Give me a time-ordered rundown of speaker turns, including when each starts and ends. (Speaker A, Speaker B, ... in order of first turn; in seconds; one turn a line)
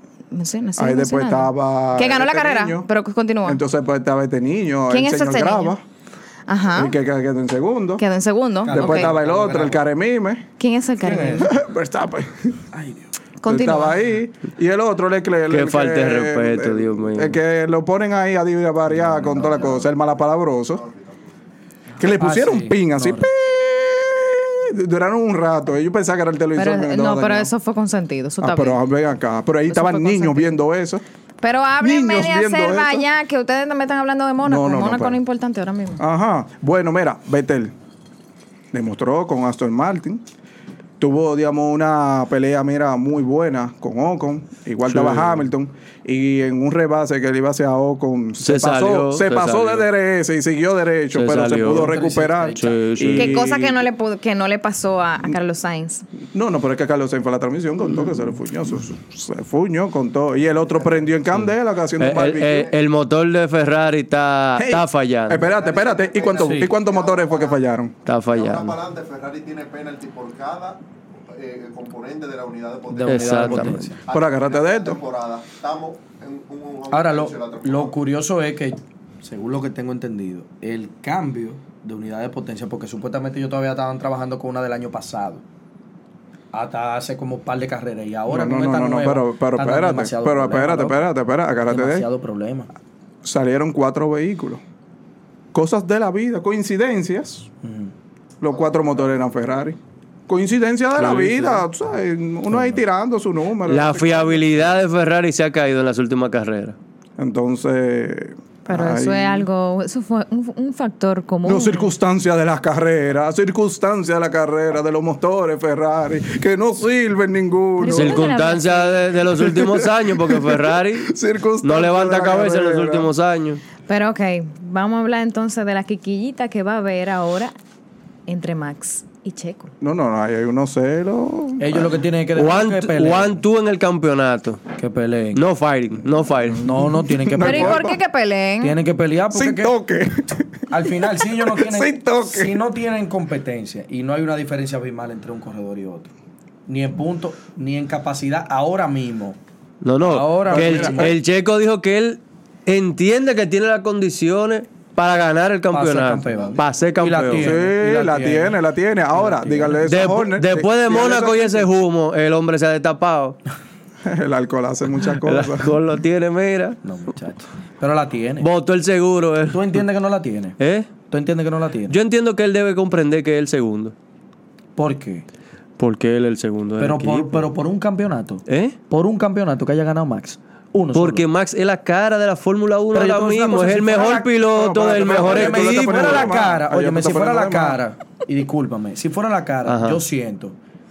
Speaker A: 0.3-3.6
Speaker B: 0.8-2.9
Speaker B: 3.4-5.8
Speaker A: 4.9-5.8
Speaker A: 6.5-6.9
Speaker B: 6.7-8.0
Speaker A: 8.0-9.1
Speaker C: 8.6-9.8
Speaker B: 8.7-10.4
Speaker A: 10.6-11.5
Speaker C: 11.0-11.5
Speaker B: 11.4-12.6
Speaker C: 12.7-13.1
Speaker A: 13.4-14.0
Speaker B: 13.4-20.8
Speaker D: 15.5-17.4
Speaker C: 18.9-19.8
Speaker E: 19.8-21.3
Speaker B: 22.0-27.5
Speaker C: 22.1-23.3
Speaker A: 26.6-28.8
Speaker B: 28.4-31.0
Speaker A: 29.7-30.5
Speaker A: 31.4-36.0
Speaker B: 31.8-33.0
Speaker B: 34.4-35.2
Speaker B: 36.0-37.7
Speaker B: 38.7-40.2
Speaker B: 41.0-53.8
Speaker D: 44.9-45.4
Speaker D: 48.4-49.9
Speaker D: 51.1-51.9
Speaker C: 51.7-52.8
Speaker D: 52.5-53.4
Speaker A: 53.1-56.0
Speaker B: 56.3-62.7
Speaker D: 62.0-65.4
Speaker B: 64.5-67.9
Speaker E: 65.3-67.6
Speaker C: 66.4-66.7
Speaker D: 68.0-68.8
Speaker E: 68.3-78.0
Speaker C: 72.9-74.0
Speaker D: 73.0-73.8
Speaker B: 74.1-75.0
Speaker C: 76.9-85.4
Speaker C: 86.5-91.1
Speaker B: 88.3-92.1
Speaker C: 91.7-92.7
Speaker B: 93.2-94.6
Speaker B: 95.5-97.5
Speaker C: 97.6-97.9
Speaker B: 98.4-99.8
Speaker B: 100.3-104.6
Speaker D: 101.0-101.5
Speaker C: 102.5-102.8
Speaker D: 103.7-106.8
Speaker B: 107.2-109.5
Speaker A: 108.7-111.9
Speaker B: 111.4-118.2
Speaker A: 117.8-119.1
Speaker D: 117.9-123.6
Speaker B: 119.3-123.1
Speaker A: 123.9-127.5
Speaker A: 128.3-129.7
Speaker B: 129.8-131.9
Speaker C: 131.6-133.4
Speaker D: 132.3-134.6
Speaker C: 134.8-135.4
Speaker D: 135.3-136.7
Speaker C: 136.6-137.9
Speaker B: 137.2-138.0
Speaker A: 137.4-138.8
Speaker C: 138.6-139.7
Speaker B: 139.3-142.6
Speaker C: 140.7-146.1
Speaker C: 146.7-149.4
Speaker D: 149.8-157.6
Speaker C: 150.0-151.1
Speaker B: 150.5-151.2
Speaker C: 155.7-158.6
Speaker E: 156.3-156.6
Speaker B: 157.4-161.7
Speaker C: 159.1-159.8
Speaker D: 159.8-163.4
Speaker B: 164.0-165.8
Speaker D: 165.2-166.8
Speaker C: 166.8-168.5
Speaker D: 168.4-169.8
Speaker C: 169.5-170.6
Speaker D: 170.6-170.9
Speaker C: 171.1-172.0
Speaker D: 171.9-173.9
Speaker C: 174.8-175.2
Speaker D: 175.8-177.4
Speaker C: 176.8-181.2
Speaker D: 178.5-178.8
Speaker D: 180.9-186.3
Speaker C: 182.9-184.3
Speaker B: 184.5-187.8
Speaker C: 184.9-190.6
Speaker D: 189.7-190.0